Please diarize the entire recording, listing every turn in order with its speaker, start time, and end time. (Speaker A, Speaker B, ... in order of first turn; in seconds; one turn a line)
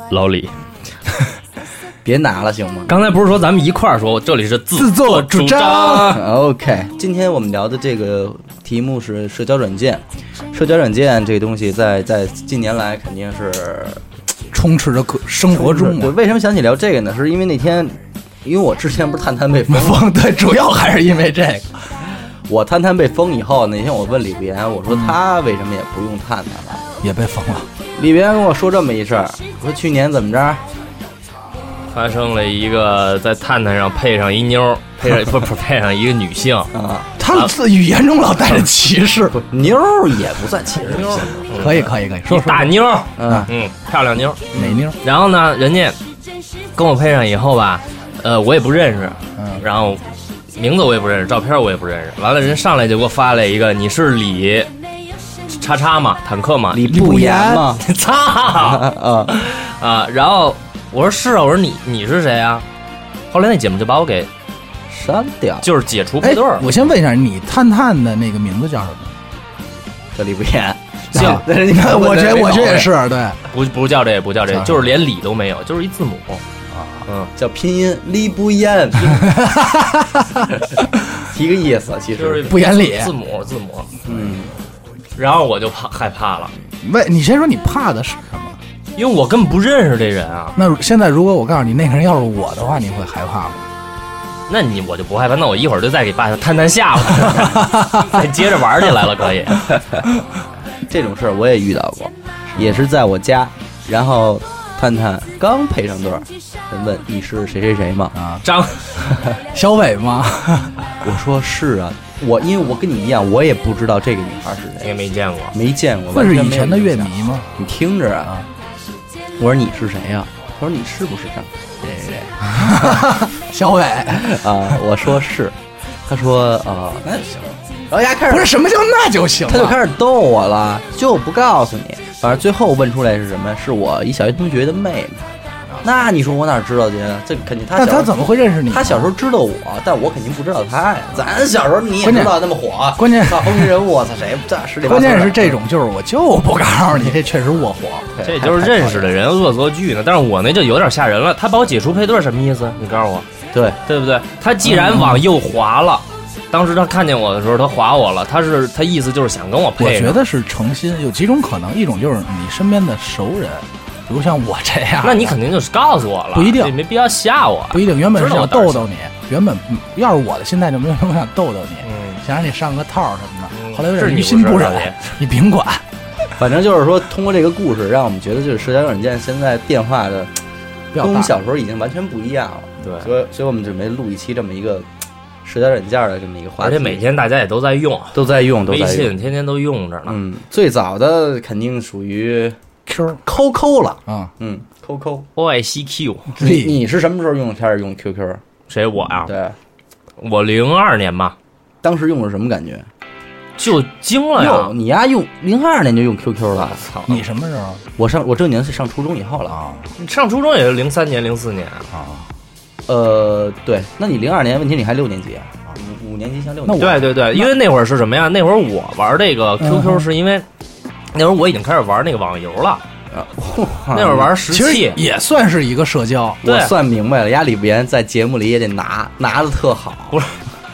Speaker A: 0.1-0.5
Speaker B: 2.0-2.9
Speaker A: 2.9-6.2
Speaker C: 4.7-6.2
Speaker B: 6.0-14.0
Speaker C: 14.5-16.1
Speaker B: 15.5-20.1
Speaker C: 19.7-21.7
Speaker B: 22.5-26.8
Speaker C: 24.9-25.1
Speaker C: 27.0-27.7
Speaker B: 27.9-30.6
Speaker A: 31.9-36.7
Speaker B: 36.7-37.1
Speaker C: 37.2-39.4
Speaker B: 39.3-41.4
Speaker A: 40.8-46.0
Speaker C: 41.5-42.7
Speaker B: 43.2-43.5
Speaker C: 44.5-45.0
Speaker A: 46.8-54.7
Speaker C: 49.4-49.6
Speaker A: 55.5-56.9
Speaker B: 56.7-57.8
Speaker C: 56.9-57.6
Speaker A: 57.8-62.6
Speaker B: 58.6-59.3
Speaker A: 63.3-64.3
Speaker B: 64.9-65.7
Speaker A: 65.6-66.7
Speaker C: 66.2-69.1
Speaker B: 70.1-72.9
Speaker C: 71.1-73.4
Speaker A: 71.1-71.4
Speaker A: 73.5-76.4
Speaker C: 74.5-74.8
Speaker C: 76.7-77.0
Speaker B: 77.3-79.5
Speaker C: 79.2-80.5
Speaker B: 80.5-82.5
Speaker A: 82.2-84.0
Speaker C: 82.5-83.1
Speaker B: 84.0-84.5
Speaker A: 85.2-86.5
Speaker C: 86.8-88.6
Speaker A: 89.0-90.5
Speaker C: 90.5-93.6
Speaker A: 94.5-99.8
Speaker C: 97.6-98.2
Speaker B: 100.9-108.2
Speaker C: 102.5-102.8
Speaker C: 108.1-108.4
Speaker A: 108.4-109.0
Speaker B: 109.1-109.3
Speaker C: 109.5-110.8
Speaker B: 111.0-114.9
Speaker A: 114.8-115.5
Speaker B: 115.5-118.4
Speaker C: 116.1-117.6
Speaker B: 119.4-123.2
Speaker C: 122.5-124.4
Speaker B: 124.1-128.6
Speaker C: 128.3-129.8
Speaker B: 129.5-135.2
Speaker B: 135.8-138.1
Speaker C: 137.7-139.1
Speaker B: 138.7-145.5
Speaker C: 142.0-142.4
Speaker C: 142.9-143.7
Speaker C: 144.8-148.1
Speaker B: 148.2-149.1
Speaker A: 148.2-153.3
Speaker B: 153.5-153.8
Speaker A: 153.8-160.2
Speaker C: 154.7-155.2
Speaker C: 159.8-165.4
Speaker A: 165.0-168.9
Speaker C: 166.3-166.8
Speaker C: 167.7-175.8
Speaker A: 171.8-172.2
Speaker A: 173.5-175.0
Speaker B: 176.4-180.3
Speaker C: 180.9-181.3
Speaker B: 180.9-184.9
Speaker A: 182.8-183.1
Speaker B: 185.4-187.0
Speaker A: 186.6-190.2
Speaker B: 188.1-189.1
Speaker B: 190.1-192.6
Speaker C: 192.9-193.2
Speaker B: 193.2-195.3
Speaker A: 195.3-196.3
Speaker C: 196.3-196.8
Speaker B: 196.4-198.4
Speaker A: 198.7-199.3
Speaker B: 199.2-199.6
Speaker A: 200.2-201.3
Speaker B: 201.8-202.9
Speaker A: 203.6-204.7
Speaker B: 204.3-206.8
Speaker A: 206.6-207.2
Speaker C: 207.1-207.8
Speaker B: 208.0-209.6
Speaker C: 209.5-209.8
Speaker A: 210.0-211.9
Speaker C: 211.9-212.2
Speaker B: 212.9-217.1
Speaker C: 216.7-217.5
Speaker A: 216.8-220.4
Speaker C: 219.6-220.1
Speaker A: 221.1-222.8
Speaker B: 223.1-224.3
Speaker A: 223.9-225.0
Speaker C: 224.5-226.4
Speaker B: 226.4-230.2
Speaker A: 226.4-226.7
Speaker A: 230.1-230.4